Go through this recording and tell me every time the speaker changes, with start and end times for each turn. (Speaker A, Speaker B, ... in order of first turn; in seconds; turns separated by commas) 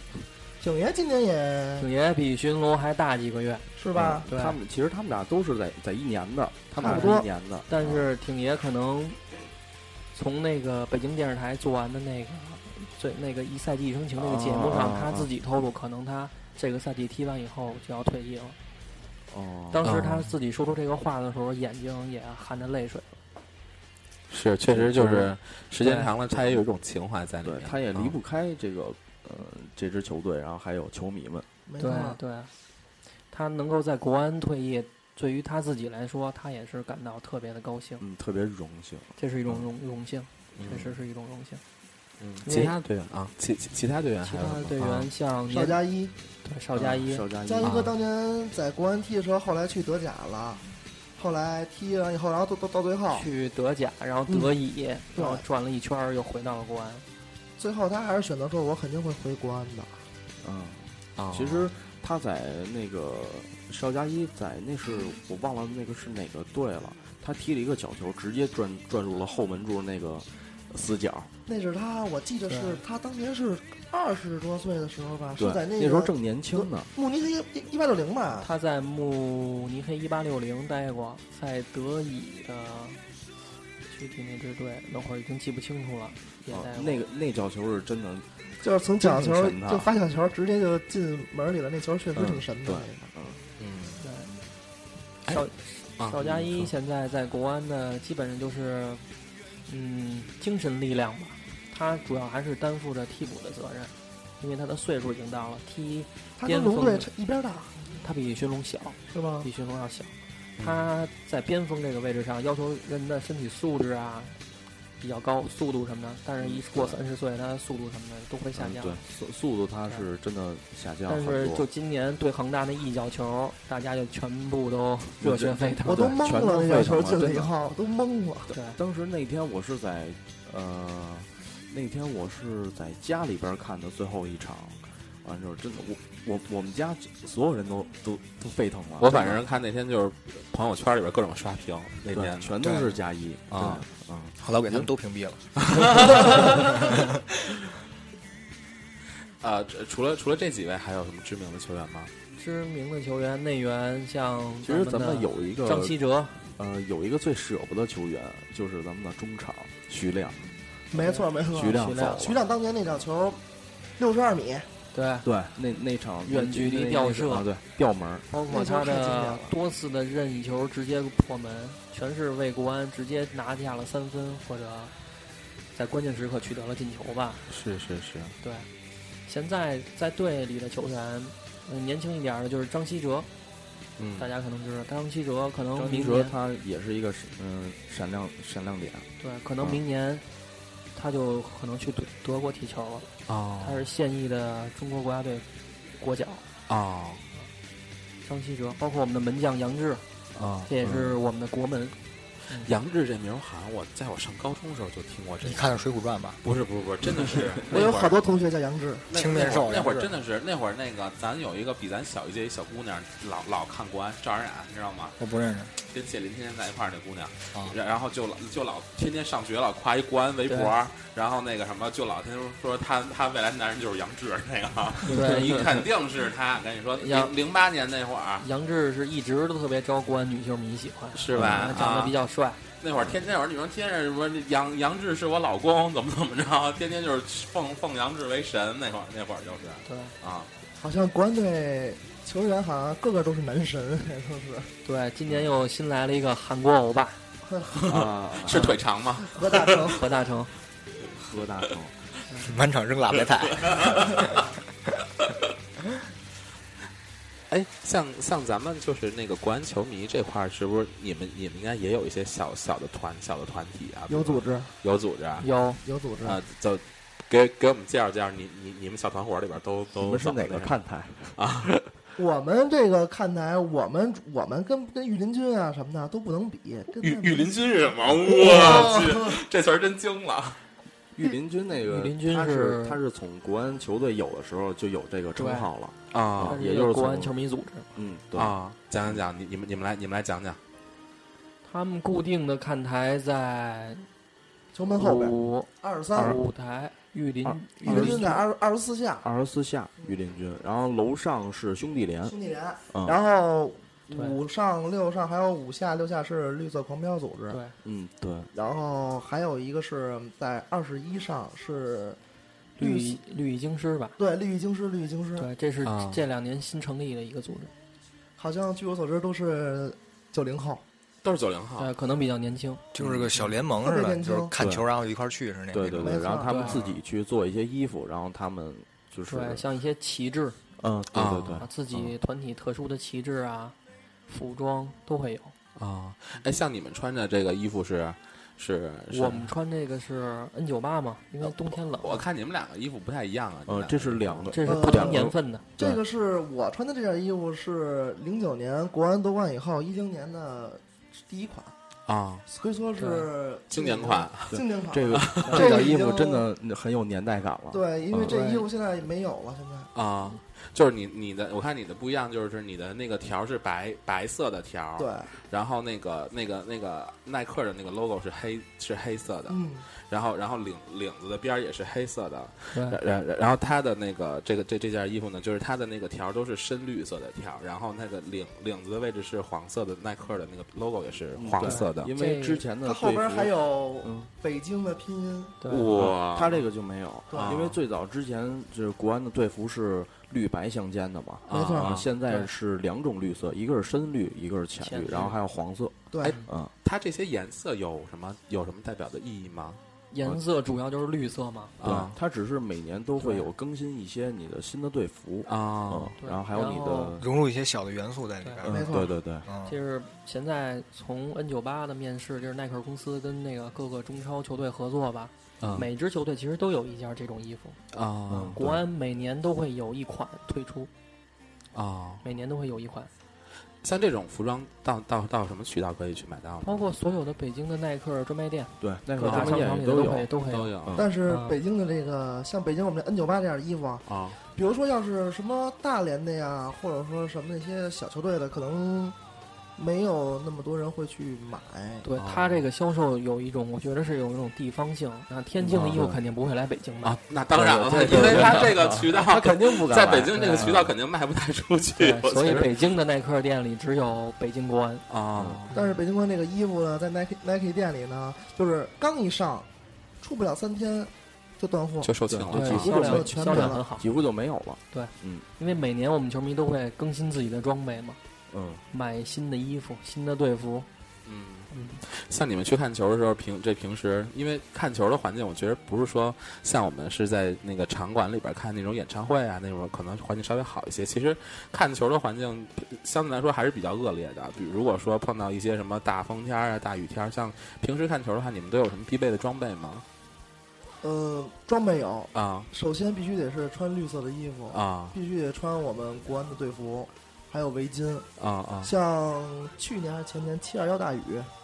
Speaker A: 0.6-1.9, Speaker B: 1.8-3.7, Speaker A: 3.8-4.3, Speaker C: 4.0-8.1, Speaker B: 4.3-4.6, Speaker A: 6.8-7.3, Speaker B: 6.8-9.2, Speaker B: 10.1-18.6, Speaker C: 14.2-15.3, Speaker C: 19.3-19.9, Speaker B: 19.7-23.1, Speaker D: 19.8-20.3, Speaker D: 24.3-28.2, Speaker C: 24.7-25.3, Speaker B: 25.8-26.1, Speaker C: 27.4-31.5, Speaker A: 31.7-32.2, Speaker B: 31.8-32.5, Speaker B: 33.3-38.0, Speaker C: 38.0-39.1, Speaker B: 39.2-41.6, Speaker D: 40.5-40.9, Speaker D: 42.2-45.1, Speaker B: 42.4-42.8, Speaker B: 44.2-45.8, Speaker A: 45.5-46.1, Speaker B: 46.4-47.3, Speaker C: 46.7-47.7, Speaker A: 47.4-50.6, Speaker D: 47.6-47.9, Speaker A: 51.2-53.3, Speaker B: 53.1-57.0, Speaker A: 54.3-54.5, Speaker A: 55.1-55.4, Speaker A: 57.6-60.0, Speaker C: 60.4-71.3, Speaker D: 61.2-61.7, Speaker A: 71.5-78.5, Speaker B: 72.5-72.8, Speaker C: 75.4-76.9, Speaker B: 78.4-83.0, Speaker B: 83.8-87.0, Speaker C: 86.5-88.3, Speaker A: 88.6-93.0, Speaker C: 89.0-89.9, Speaker C: 92.1-93.4, Speaker D: 93.6-94.0, Speaker B: 94.0-94.4, Speaker B: 95.3-99.0, Speaker D: 96.0-96.7, Speaker B: 99.7-107.1, Speaker A: 106.4-107.8, Speaker B: 108.0-114.4, Speaker A: 109.1-109.5, Speaker D: 110.6-110.9, Speaker B: 115.0-119.0, Speaker C: 116.4-117.0, Speaker C: 118.5-121.7, Speaker B: 121.1-125.9, Speaker C: 125.2-127.6, Speaker A: 125.8-128.5, Speaker B: 128.5-128.8, Speaker C: 128.7-139.4, Speaker D: 139.0-142.5, Speaker C: 142.0-144.4, Speaker E: 142.6-142.9, Speaker D: 143.5-143.9, Speaker E: 144.4-147.0, Speaker D: 145.6-147.0, Speaker D: 149.4-152.1, Speaker B: 152.4-156.5, Speaker C: 154.6-155.9, Speaker C: 156.6-160.4, Speaker A: 160.9-163.4, Speaker B: 160.9-162.3, Speaker C: 161.5-162.4, Speaker A: 164.0-164.7, Speaker B: 164.9-165.3, Speaker C: 165.2-168.3, Speaker B: 166.2-167.5, Speaker B: 168.3-174.9, Speaker A: 168.5-169.5, Speaker B: 175.7-177.5, Speaker D: 177.5-178.4, Speaker B: 178.4-178.7, Speaker B: 179.3-183.3, Speaker D: 184.0-184.3, Speaker B: 184.2-186.3, Speaker C: 185.7-189.1, Speaker B: 189.2-190.2, Speaker B: 190.9-193.1, Speaker D: 193.3-193.9, Speaker B: 193.6-195.5, Speaker B: 196.0-196.5, Speaker D: 196.7-197.2, Speaker B: 198.2-200.0, Speaker D: 200.3-201.2, Speaker B: 200.7-202.0, Speaker D: 202.6-205.8, Speaker E: 205.4-206.4, Speaker D: 206.4-208.2, Speaker A: 207.7-209.1, Speaker D: 209.1-215.2, Speaker E: 209.1-210.1, Speaker E: 215.2-215.7, Speaker D: 215.8-228.5, Speaker B: 220.5-220.7, Speaker B: 225.1-225.8, Speaker B: 227.0-227.3, Speaker B: 228.4-232.6, Speaker D: 231.2-232.2, Speaker C: 231.4-231.8, Speaker D: 232.8-240.5, Speaker B: 239.9-240.1, Speaker A: 240.8-244.7, Speaker B: 244.8-247.2, Speaker A: 247.4-247.9, Speaker D: 247.8-250.0, Speaker C: 247.9-248.7, Speaker B: 248.5-248.8, Speaker A: 249.2-250.1, Speaker B: 249.9-250.5, Speaker C: 251.1-251.9, Speaker E: 252.4-254.4, Speaker D: 253.6-254.2, Speaker D: 257.5-265.5, Speaker A: 264.1-264.7, Speaker B: 265.4-265.8, Speaker A: 265.8-266.4, Speaker D: 266.2-270.7, Speaker C: 270.0-271.4, Speaker D: 271.4-271.9, Speaker A: 272.2-277.5, Speaker D: 277.0-280.6, Speaker A: 278.2-279.4, Speaker C: 281.1-287.3, Speaker B: 281.8-283.0, Speaker B: 285.4-285.7, Speaker D: 286.1-286.6, Speaker B: 286.5-287.9, Speaker C: 287.9-288.6, Speaker D: 288.3-290.6, Speaker B: 291.6-294.1, Speaker A: 294.7-296.4, Speaker B: 295.0-298.4, Speaker C: 296.1-296.4, Speaker C: 297.4-298.3, Speaker A: 297.8-299.3, Speaker C: 299.2-302.3, Speaker A: 302.2-307.6, Speaker C: 302.9-303.2, Speaker B: 304.1-304.4, Speaker B: 307.5-307.8, Speaker C: 307.8-308.5, Speaker A: 308.5-312.2, Speaker A: 312.8-313.2, Speaker B: 312.8-314.2, Speaker A: 314.2-315.5, Speaker B: 315.4-317.7, Speaker D: 315.8-316.2, Speaker A: 318.4-320.8, Speaker D: 321.2-321.9, Speaker B: 321.8-322.8, Speaker E: 322.9-326.2, Speaker C: 323.0-323.3, Speaker A: 323.8-324.5, Speaker C: 324.6-324.8, Speaker C: 325.7-329.6, Speaker A: 326.0-326.9, Speaker B: 326.5-326.8, Speaker B: 329.3-330.6, Speaker C: 330.8-332.1, Speaker D: 331.1-331.6, Speaker B: 331.6-333.8, Speaker B: 334.3-335.5, Speaker D: 335.8-339.5, Speaker B: 339.1-342.2, Speaker D: 342.0-344.5, Speaker C: 343.7-346.0, Speaker B: 344.5-345.7, Speaker A: 344.7-351.7, Speaker D: 352.1-352.4, Speaker A: 352.5-356.5, Speaker B: 353.0-353.3, Speaker D: 353.7-355.7, Speaker C: 354.5-357.8, Speaker B: 355.5-355.8, Speaker A: 357.7-359.9, Speaker B: 358.3-358.7, Speaker D: 359.9-382.1, Speaker A: 365.0-365.4, Speaker A: 369.5-369.9, Speaker B: 372.7-373.0, Speaker C: 381.4-384.3, Speaker B: 381.6-382.6, Speaker A: 382.8-385.6, Speaker B: 385.6-385.9, Speaker D: 385.7-386.6, Speaker C: 386.0-396.7, Speaker A: 387.3-387.7, Speaker D: 387.3-387.8, Speaker D: 391.5-392.1, Speaker A: 391.5-392.0, Speaker B: 394.8-395.4, Speaker A: 396.1-396.4, Speaker D: 396.2-399.8, Speaker B: 400.1-401.7, Speaker D: 401.8-402.2, Speaker C: 401.8-407.3, Speaker B: 403.2-403.5, Speaker D: 405.5-406.2, Speaker B: 406.2-407.2, Speaker E: 407.2-409.8, Speaker C: 408.6-409.5, Speaker A: 408.7-409.1, Speaker B: 409.6-417.8, Speaker D: 415.6-415.9, Speaker D: 417.9-418.8, Speaker C: 418.3-418.6, Speaker B: 418.6-420.9, Speaker D: 421.7-422.2, Speaker B: 422.2-423.1, Speaker D: 423.8-426.8, Speaker B: 426.6-430.7, Speaker C: 428.8-430.3, Speaker D: 429.2-429.6, Speaker D: 430.5-431.0, Speaker A: 431.0-439.2, Speaker B: 431.3-431.6, Speaker D: 434.1-434.4, Speaker A: 439.8-442.1, Speaker B: 442.0-447.2, Speaker D: 442.2-442.7, Speaker C: 445.6-446.2, Speaker D: 447.0-452.8, Speaker C: 447.5-450.9, Speaker B: 447.8-448.7, Speaker B: 450.3-450.7, Speaker B: 452.0-455.1, Speaker D: 455.1-455.7, Speaker C: 455.4-455.7, Speaker B: 455.7-456.0, Speaker A: 455.7-459.7, Speaker A: 460.2-462.1, Speaker D: 462.0-462.9, Speaker C: 462.3-465.5, Speaker B: 462.5-464.1, Speaker A: 462.7-463.8, Speaker B: 464.9-468.2, Speaker C: 468.5-468.8, Speaker B: 468.9-470.9, Speaker D: 471.2-490.1, Speaker B: 471.7-472.0, Speaker A: 491.0-498.3, Speaker D: 492.3-492.7, Speaker D: 494.7-495.2, Speaker D: 498.4-498.9, Speaker A: 498.8-501.5